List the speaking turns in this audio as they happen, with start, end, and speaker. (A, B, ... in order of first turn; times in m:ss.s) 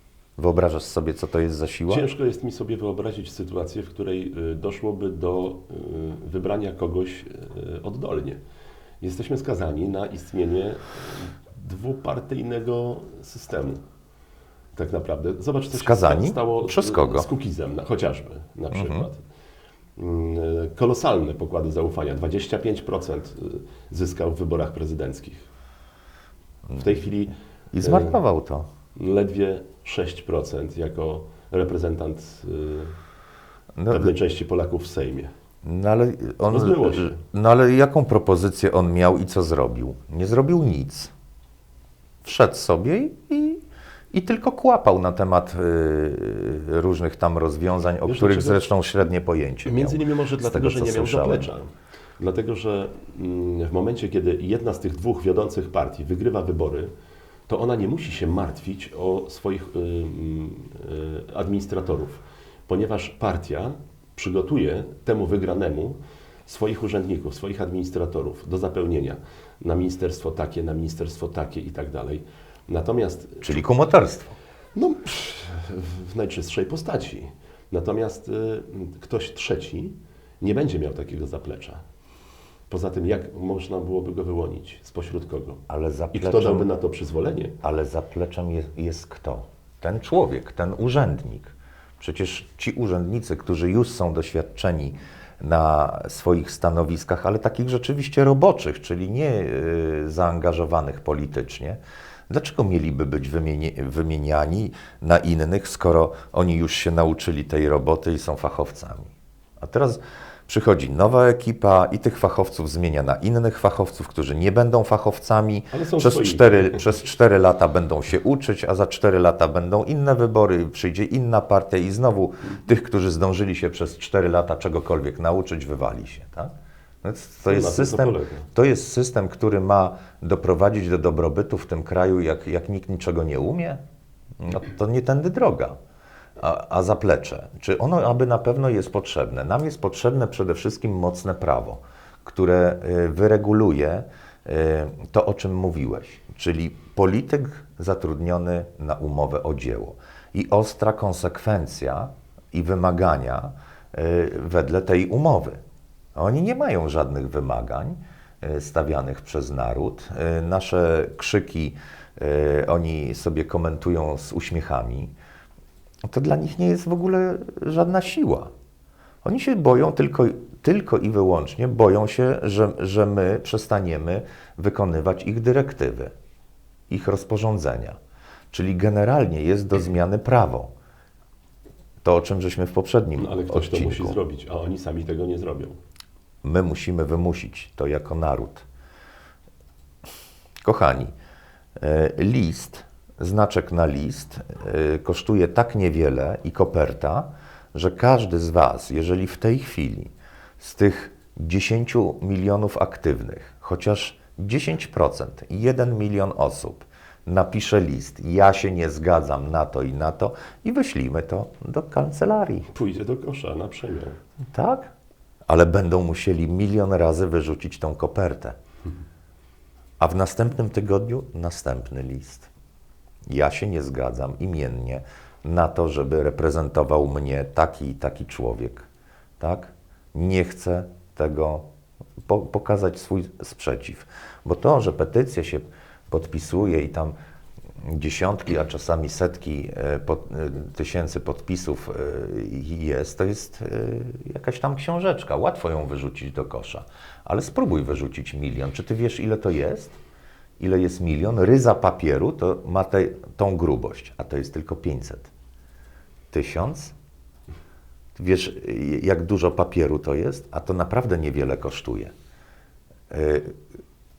0:00.4-0:02.0 A
0:01.9-0:08.4 B
0:09.0-0:13.8 B
0:14.7-0:19.2 B
0:15.7-0:17.3 A
0:18.7-0:19.1 A
0:20.0-0:25.4 B
0:26.7-0:28.2 B
0:27.7-0:28.7 A
0:29.0-0:33.0 B
0:33.8-0:34.1 A
0:33.9-0:35.3 B
0:35.6-0:41.1 A
0:36.5-0:37.2 B
0:42.2-0:43.6 A
0:44.1-0:51.5 A
0:48.0-0:48.7 B
0:49.6-0:56.9 B
0:57.5-1:13.6 B
1:13.4-1:14.4 A
1:14.7-1:21.8 B
1:22.7-1:25.6 B
1:25.7-1:26.7 A
1:26.1-1:27.6 B
1:27.6-2:06.5 A
1:55.7-1:56.8 B
2:07.0-2:13.8 A
2:07.5-2:08.5 B
2:14.4-2:15.7 A
2:16.4-2:35.6 A
2:36.2-2:45.1 A
2:46.1-2:48.5 A
2:49.2-2:56.1 A
2:56.9-2:58.0 A
2:58.5-3:00.7 A
3:02.0-3:04.2 A
3:03.2-3:05.8 B
3:06.4-3:08.6 A
3:10.6-3:11.1 A
3:11.8-3:32.7 A
3:32.7-3:34.2 B
3:34.5-3:34.9 A
3:35.5-3:38.6 A
3:40.0-3:42.5 A
3:43.3-3:48.9 A
3:49.4-3:51.6 A
3:52.2-3:57.1 A
3:57.8-4:10.0 A
4:10.6-4:15.3 A
4:16.3-4:16.9 A
4:18.2-4:22.1 A
4:23.1-4:23.5 A